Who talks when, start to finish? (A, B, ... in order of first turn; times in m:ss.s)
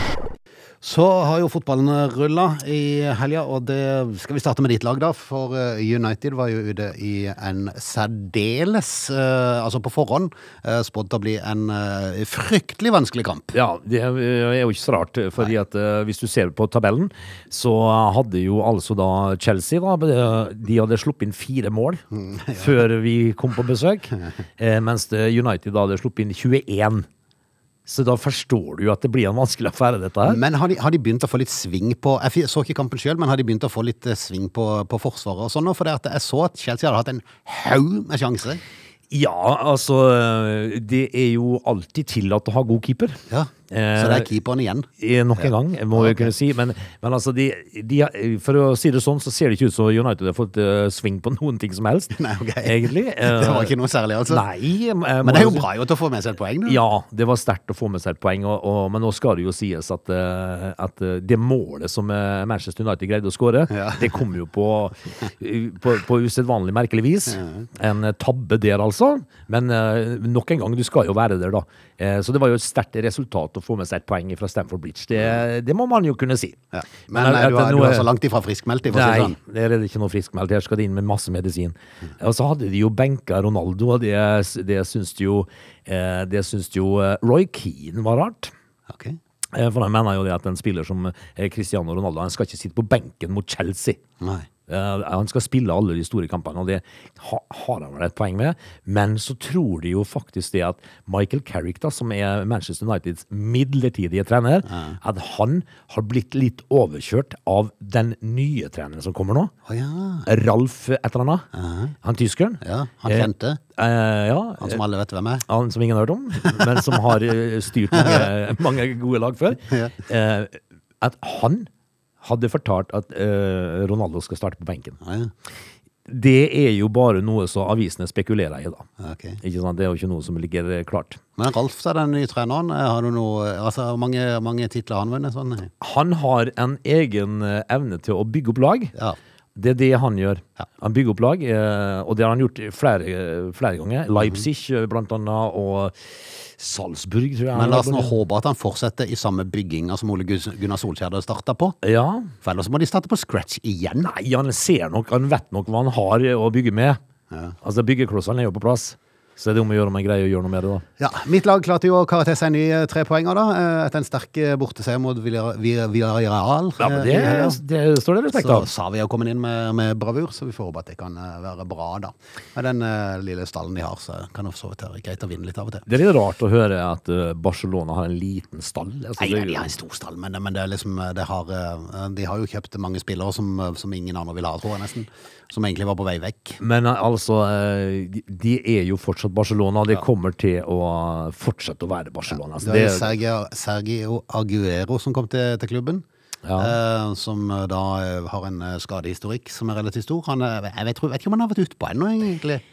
0:00.8-0:13.6 A
0:13.5-0:22.0 B
0:22.1-0:22.7 A
0:22.6-0:27.1 B
0:27.9-0:30.4 B
0:30.3-0:38.6 A
0:39.1-0:44.3 B
0:43.3-0:44.9 A
0:45.0-0:53.7 B
0:45.4-0:46.3 A
0:52.2-0:54.4 A
0:54.3-0:55.7 B
0:55.2-0:56.8 A
0:56.6-1:18.1 B
1:03.7-1:04.2 A
1:07.3-1:07.7 A
1:16.7-1:19.4 A
1:18.9-1:28.5 B
1:28.9-1:29.2 A
1:29.5-1:34.0 B
1:34.2-1:34.5 A
1:34.7-1:49.5 B
1:44.7-1:45.0 A
1:49.7-1:50.3 A
1:50.3-1:51.5 B
1:51.5-1:51.9 A
1:52.0-1:54.8 B
1:52.6-1:53.6 A
1:54.6-1:55.4 A
1:55.5-2:01.7 B
1:57.9-1:58.3 A
1:59.6-2:00.0 A
2:02.2-2:05.0 B
2:05.0-2:05.3 A
2:06.1-2:08.9 B
2:09.0-2:09.4 A
2:09.4-2:11.2 B
2:11.4-2:15.7 A
2:15.8-2:18.9 B
2:19.6-2:28.2 B
2:27.5-2:31.8 A
2:31.8-2:32.3 B
2:32.4-2:34.1 A
2:34.0-2:37.0 B
2:37.3-2:37.6 A
2:37.6-2:40.8 B
2:41.0-2:47.6 A
2:46.8-2:48.7 B
2:48.4-2:55.9 A
2:55.9-2:59.7 B
2:59.2-3:06.6 A
3:06.6-3:13.1 B
3:12.6-3:16.0 A
3:16.4-3:16.7 B
3:16.6-3:22.6 A